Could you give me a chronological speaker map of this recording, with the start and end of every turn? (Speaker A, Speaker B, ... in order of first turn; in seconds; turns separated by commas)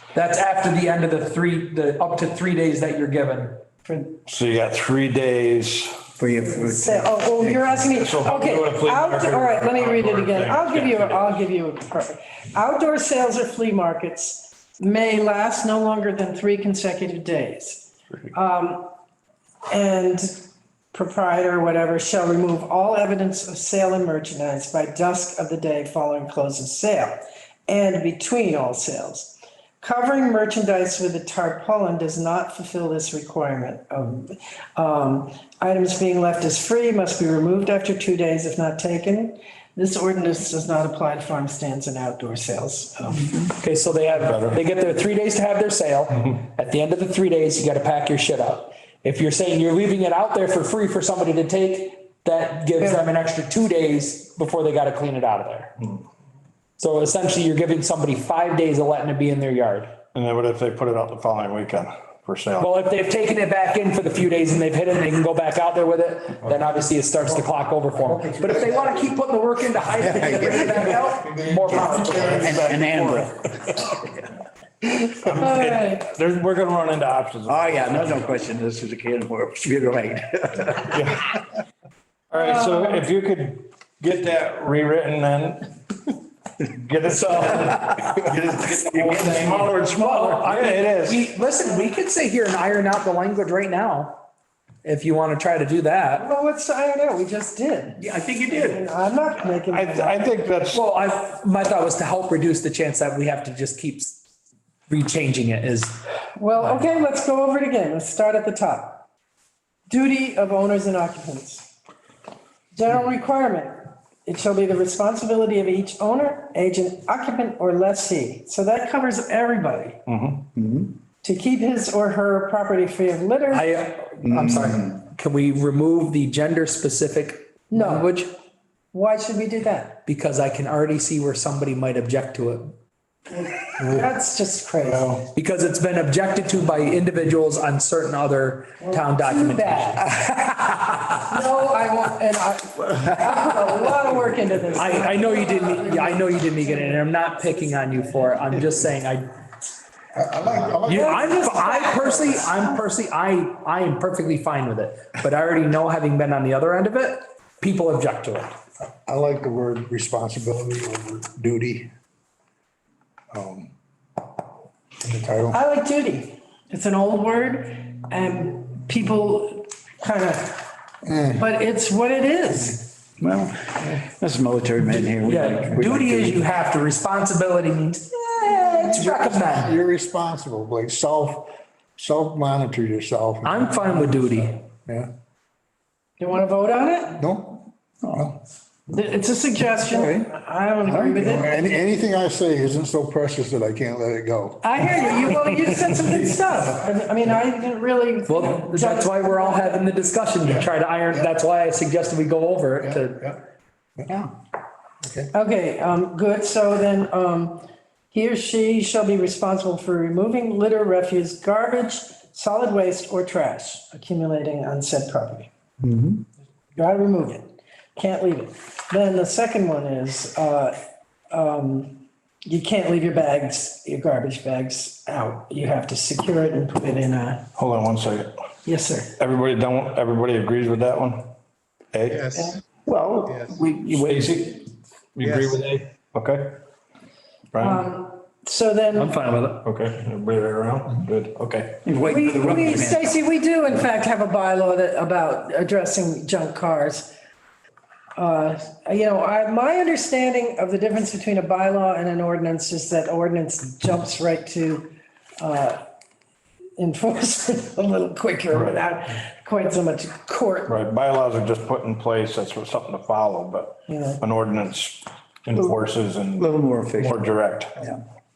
Speaker A: 0.1-3.6, Speaker B: 3.8-4.2, Speaker C: 4.2-5.9, Speaker D: 6.2-7.7, Speaker B: 6.4-18.9, Speaker C: 7.9-11.4, Speaker B: 19.7-43.5, Speaker A: 43.6-55.7, Speaker C: 44.2-44.6, Speaker B: 52.8-53.0, Speaker A: 56.8-60.0, Speaker C: 60.1-62.7, Speaker A: 62.6-72.5, Speaker E: 68.0-69.1, Speaker E: 70.0-72.6, Speaker D: 70.1-70.5, Speaker C: 71.9-73.9, Speaker D: 72.4-73.4, Speaker B: 74.8-76.0, Speaker C: 75.2-78.3, Speaker D: 77.5-81.0, Speaker C: 80.8-81.3, Speaker C: 82.3-85.7, Speaker C: 86.6-91.2, Speaker A: 87.1-87.9, Speaker D: 88.8-90.4, Speaker A: 89.0-94.2, Speaker A: 94.8-96.3, Speaker B: 96.2-100.3, Speaker A: 98.0-98.8, Speaker C: 99.7-100.8, Speaker A: 100.7-104.2, Speaker A: 104.9-106.0, Speaker B: 106.3-109.1, Speaker B: 109.9-111.7, Speaker B: 112.7-120.0, Speaker C: 120.0-120.5, Speaker D: 120.5-120.9, Speaker B: 121.2-123.7, Speaker A: 123.5-128.0, Speaker D: 124.4-124.8, Speaker B: 127.7-128.3, Speaker B: 128.9-130.0, Speaker A: 130.1-132.7, Speaker B: 133.8-135.1, Speaker E: 134.9-135.2, Speaker A: 135.3-141.3, Speaker B: 139.2-139.9, Speaker B: 141.3-148.2, Speaker A: 144.8-149.3, Speaker E: 150.1-151.6, Speaker A: 150.8-158.5, Speaker B: 150.9-152.6, Speaker E: 159.0-161.9, Speaker E: 163.3-163.7, Speaker E: 165.0-165.6, Speaker B: 165.5-170.7, Speaker E: 171.0-171.4, Speaker B: 171.4-173.0, Speaker D: 173.2-176.4, Speaker A: 175.2-179.8, Speaker E: 178.5-184.1, Speaker A: 183.4-184.6, Speaker B: 186.2-187.2, Speaker E: 187.1-188.4, Speaker B: 188.9-191.8, Speaker E: 189.9-190.3, Speaker E: 190.8-194.7, Speaker B: 194.6-199.9, Speaker A: 198.3-203.3, Speaker E: 202.8-203.4, Speaker E: 205.0-205.3, Speaker B: 205.3-215.5, Speaker B: 216.8-220.8, Speaker B: 221.3-227.4, Speaker C: 227.6-228.3, Speaker B: 228.6-229.1, Speaker C: 229.2-231.3, Speaker C: 231.9-232.4, Speaker D: 232.8-234.3, Speaker C: 233.9-234.6, Speaker C: 235.2-236.6, Speaker C: 237.5-237.8, Speaker B: 237.6-239.3, Speaker C: 239.2-241.8, Speaker D: 241.8-243.1, Speaker B: 242.0-247.1, Speaker B: 248.2-255.8, Speaker B: 256.8-260.7, Speaker C: 258.5-258.8, Speaker C: 260.7-267.9, Speaker B: 263.9-264.2, Speaker D: 266.4-267.2